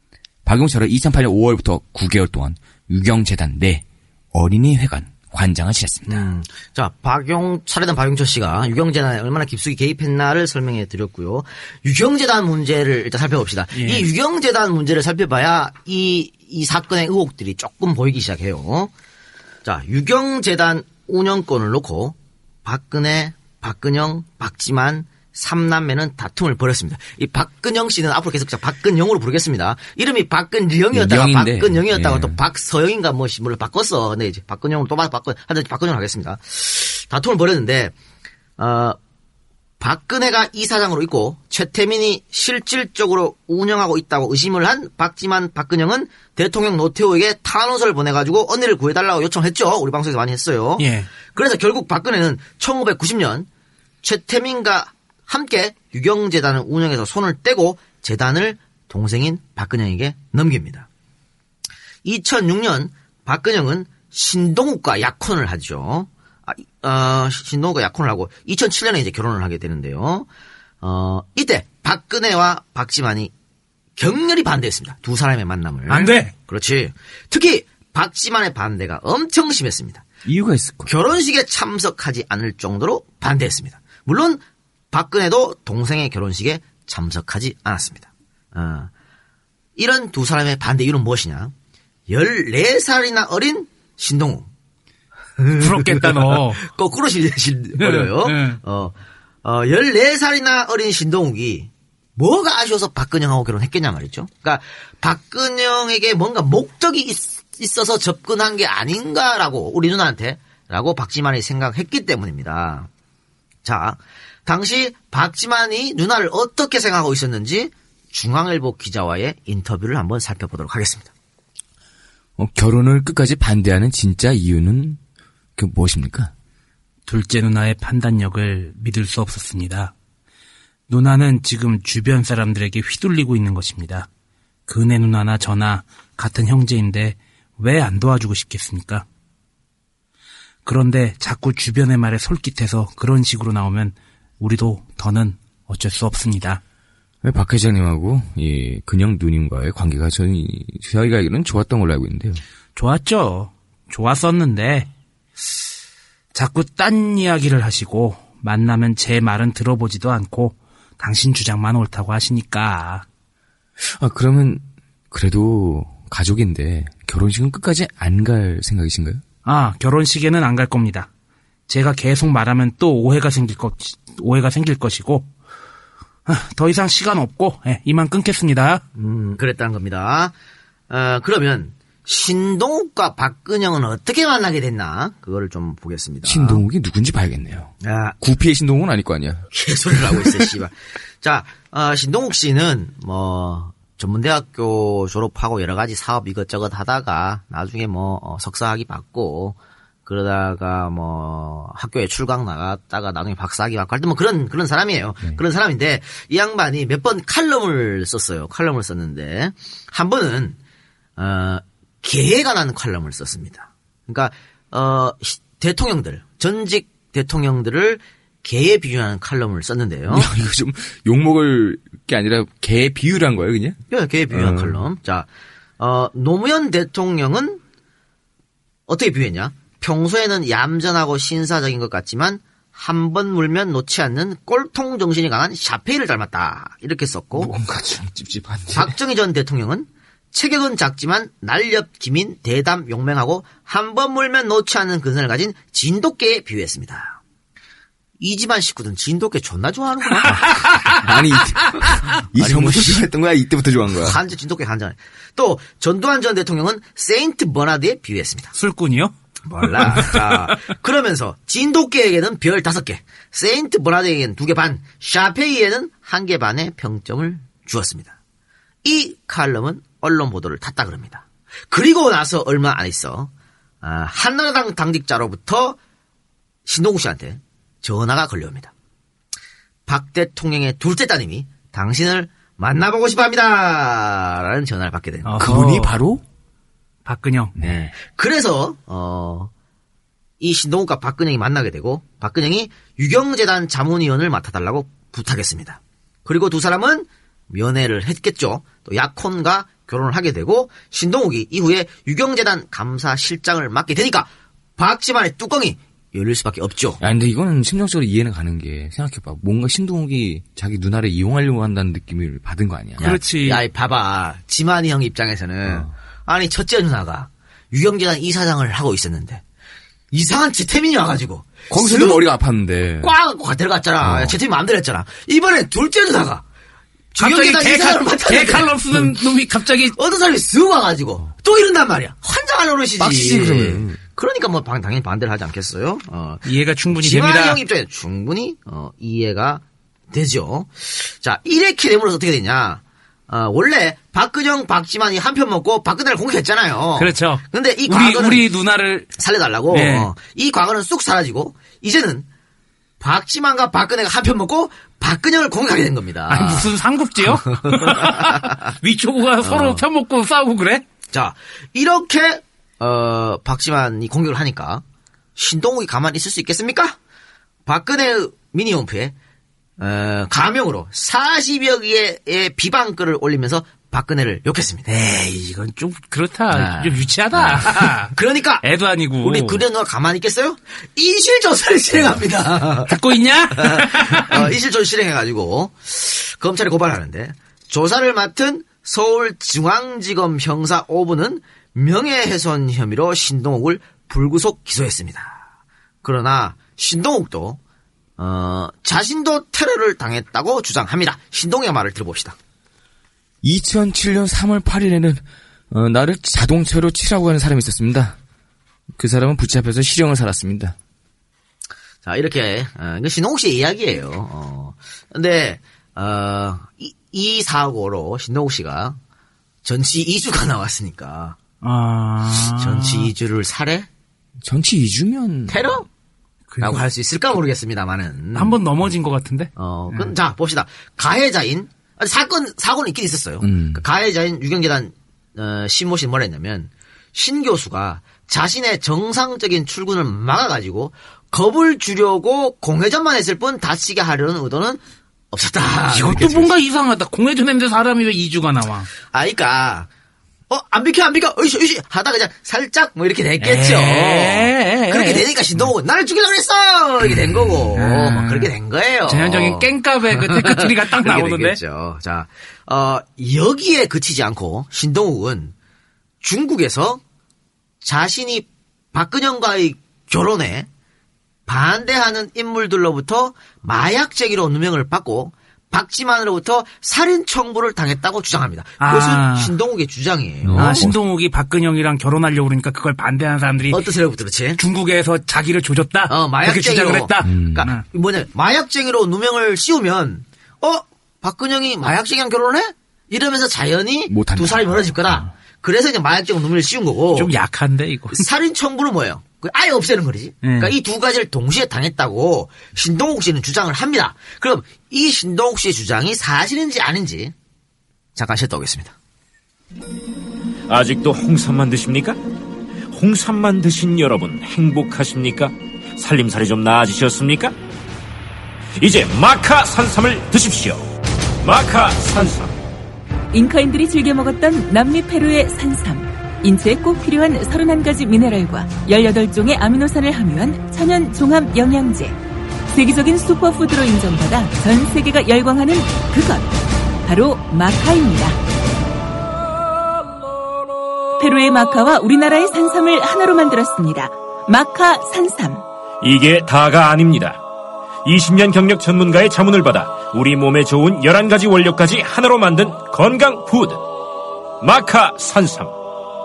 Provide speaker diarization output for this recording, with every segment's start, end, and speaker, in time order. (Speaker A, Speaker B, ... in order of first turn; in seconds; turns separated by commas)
Speaker A: 0.5-6.3, Speaker B: 6.1-18.9, Speaker C: 13.8-14.1, Speaker B: 19.6-37.9, Speaker A: 30.9-32.4, Speaker B: 38.6-39.0, Speaker B: 39.8-53.5, Speaker C: 50.8-51.1, Speaker B: 54.0-60.9, Speaker B: 62.0-70.3, Speaker B: 70.8-73.3, Speaker B: 74.0-80.0, Speaker C: 75.9-76.3, Speaker A: 80.2-80.9, Speaker B: 80.9-88.9, Speaker B: 89.8-91.5, Speaker B: 92.1-94.5, Speaker B: 95.4-112.9, Speaker C: 95.6-96.6, Speaker C: 97.8-98.6, Speaker B: 113.7-121.1, Speaker A: 122.4-125.0, Speaker A: 125.6-126.3, Speaker C: 127.1-129.9, Speaker C: 130.9-134.1, Speaker C: 134.7-139.1, Speaker C: 140.7-146.6, Speaker A: 147.2-152.4, Speaker C: 152.8-154.9, Speaker C: 156.3-163.1, Speaker A: 163.8-169.2, Speaker C: 169.4-171.1, Speaker C: 171.7-175.3, Speaker C: 176.3-178.8, Speaker B: 179.0-180.3, Speaker B: 180.9-186.6, Speaker A: 186.2-189.5, Speaker B: 187.8-188.2, Speaker B: 189.5-210.6, Speaker B: 211.2-220.3, Speaker A: 220.1-223.8, Speaker B: 223.9-225.3, Speaker A: 224.3-224.8, Speaker B: 225.8-227.6, Speaker B: 228.9-237.5, Speaker A: 237.4-238.9, Speaker B: 238.7-247.2, Speaker B: 248.2-251.0, Speaker C: 250.3-250.9, Speaker A: 250.3-254.2, Speaker B: 252.4-253.0, Speaker B: 254.0-258.5, Speaker C: 258.6-259.1, Speaker B: 259.5-268.1, Speaker C: 259.8-260.2, Speaker B: 268.8-273.3, Speaker B: 273.8-275.8, Speaker B: 276.7-278.7, Speaker B: 279.9-285.4, Speaker C: 285.2-285.9, Speaker A: 285.4-286.2, Speaker C: 287.1-287.6, Speaker A: 287.6-287.9, Speaker B: 287.6-289.5, Speaker B: 290.4-307.0, Speaker A: 307.0-313.1, Speaker B: 313.0-319.4, Speaker C: 313.0-313.6, Speaker A: 315.7-315.9, Speaker B: 320.1-322.2, Speaker A: 321.7-323.1, Speaker B: 323.0-326.4, Speaker A: 324.0-324.4, Speaker B: 327.1-328.8, Speaker C: 327.2-330.0, Speaker B: 329.9-348.4, Speaker A: 333.0-334.0, Speaker C: 336.4-337.6, Speaker C: 347.0-349.1, Speaker B: 349.2-352.3, Speaker C: 349.7-350.1, Speaker B: 353.0-356.7, Speaker C: 356.3-360.8, Speaker B: 357.2-358.7, Speaker B: 359.4-359.8, Speaker B: 361.1-364.8, Speaker B: 365.4-367.0, Speaker B: 367.7-369.1, Speaker B: 369.8-375.3, Speaker C: 375.1-379.6, Speaker B: 376.5-378.7, Speaker B: 379.2-382.9, Speaker C: 382.9-384.5, Speaker B: 383.6-395.4, Speaker B: 396.0-397.6, Speaker B: 398.2-402.4, Speaker A: 403.4-408.2, Speaker A: 408.9-410.8, Speaker B: 412.0-419.0, Speaker B: 419.6-421.4, Speaker C: 421.6-423.1, Speaker B: 422.5-423.9, Speaker A: 424.4-425.8, Speaker B: 425.5-425.9, Speaker C: 426.5-426.8, Speaker B: 426.6-428.6, Speaker C: 428.4-430.1, Speaker B: 429.6-444.8, Speaker A: 433.4-433.8, Speaker B: 445.3-446.5, Speaker C: 445.9-448.9, Speaker B: 449.1-449.9, Speaker B: 450.5-465.5, Speaker C: 453.4-455.7, Speaker C: 457.7-458.5, Speaker C: 459.1-461.6, Speaker B: 466.2-467.0, Speaker B: 467.8-470.7, Speaker B: 471.5-480.9, Speaker C: 478.8-479.5, Speaker A: 480.4-481.0, Speaker C: 480.6-483.8, Speaker B: 483.7-484.6, Speaker C: 484.6-487.8, Speaker B: 486.1-497.3, Speaker A: 487.2-487.7, Speaker A: 494.1-495.3, Speaker C: 497.1-498.2, Speaker B: 498.1-507.3, Speaker C: 500.4-500.7, Speaker B: 508.2-508.9, Speaker D: 510.7-512.2, Speaker D: 512.9-517.5, Speaker D: 518.8-520.9, Speaker D: 521.4-522.5, Speaker E: 523.3-532.2, Speaker E: 532.7-536.5, Speaker E: 537.0-538.4, Speaker E: 541.2-545.6, Speaker D: 546.0-547.4, Speaker D: 548.0-553.8, Speaker D: 554.6-555.8